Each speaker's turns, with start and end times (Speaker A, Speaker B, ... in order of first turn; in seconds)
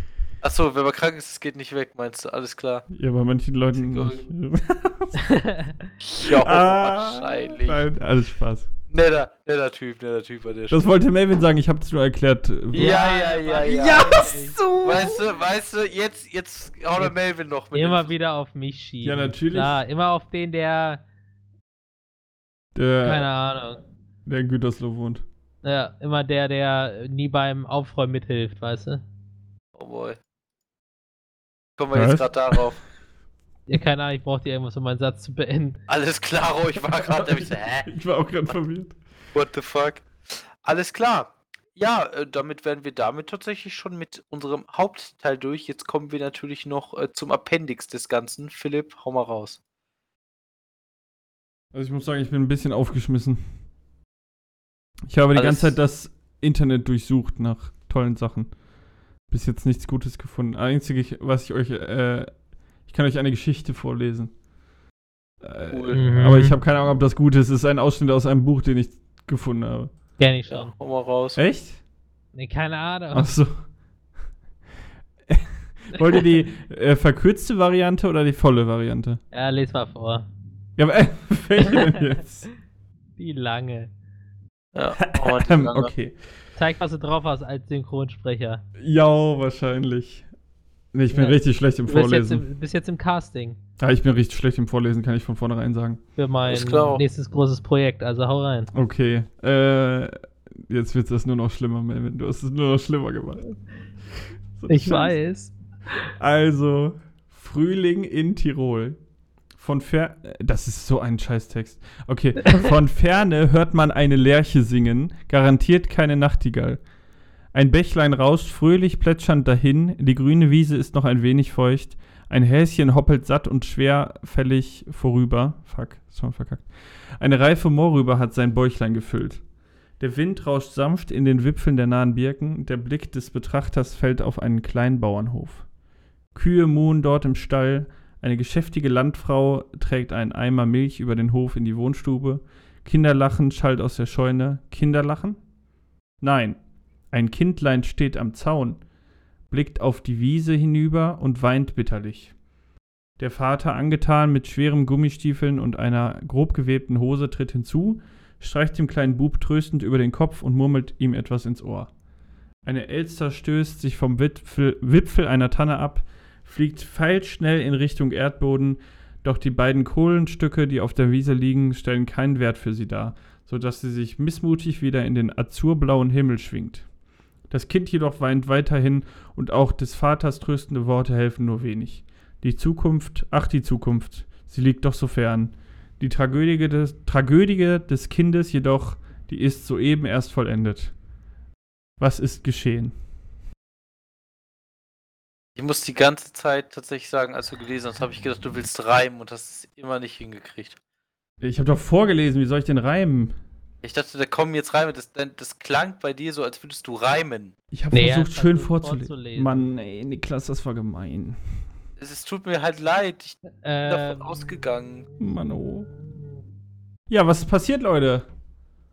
Speaker A: 0.4-2.9, 3.7-4.2, 6.0-7.8, 8.9-10.8, 12.7-14.2, 14.8-18.1, 29.8-30.2, 31.8-32.8, 35.9-37.9, 39.3-49.6, 55.3-55.8, 65.7-66.0, 70.5-71.4, 84.7-85.9, 96.5-97.0, 195.6-200.8, 203.8-207.5, 212.0-215.1
Speaker B: 2.9-5.2, 6.2-8.7, 10.7-13.0, 13.8-15.1, 19.0-19.8, 22.7-23.3, 24.2-25.2, 31.9-32.6, 37.1-38.9, 51.7-53.4, 55.1-58.5, 59.3-64.3, 65.4-70.0, 71.3-71.8, 73.1-73.5, 75.3-79.2, 80.8-82.5, 85.0-86.2, 88.8-90.2, 90.9-92.4, 93.8-96.0, 98.7-103.5, 104.6-105.2, 106.2-109.0, 109.6-116.8, 117.5-129.4, 130.0-135.7, 136.3-145.4, 146.2-146.6, 147.1-148.8, 149.5-152.3, 153.2-161.9, 162.6-176.9, 177.5-190.9, 192.0-192.9, 201.4-203.3, 207.7-211.4, 215.2-215.9, 217.1-218.2
Speaker C: 5.3-5.7, 12.7-14.6, 17.7-21.0, 23.0-23.8, 25.6-29.0, 33.7-35.8, 65.9-66.6, 70.2-70.7, 72.3-73.3, 79.3-80.2, 81.7-82.0, 83.2-83.9, 86.5-88.6, 91.1-93.6, 96.2-98.7, 104.7-106.0, 207.9-209.7, 213.6-214.4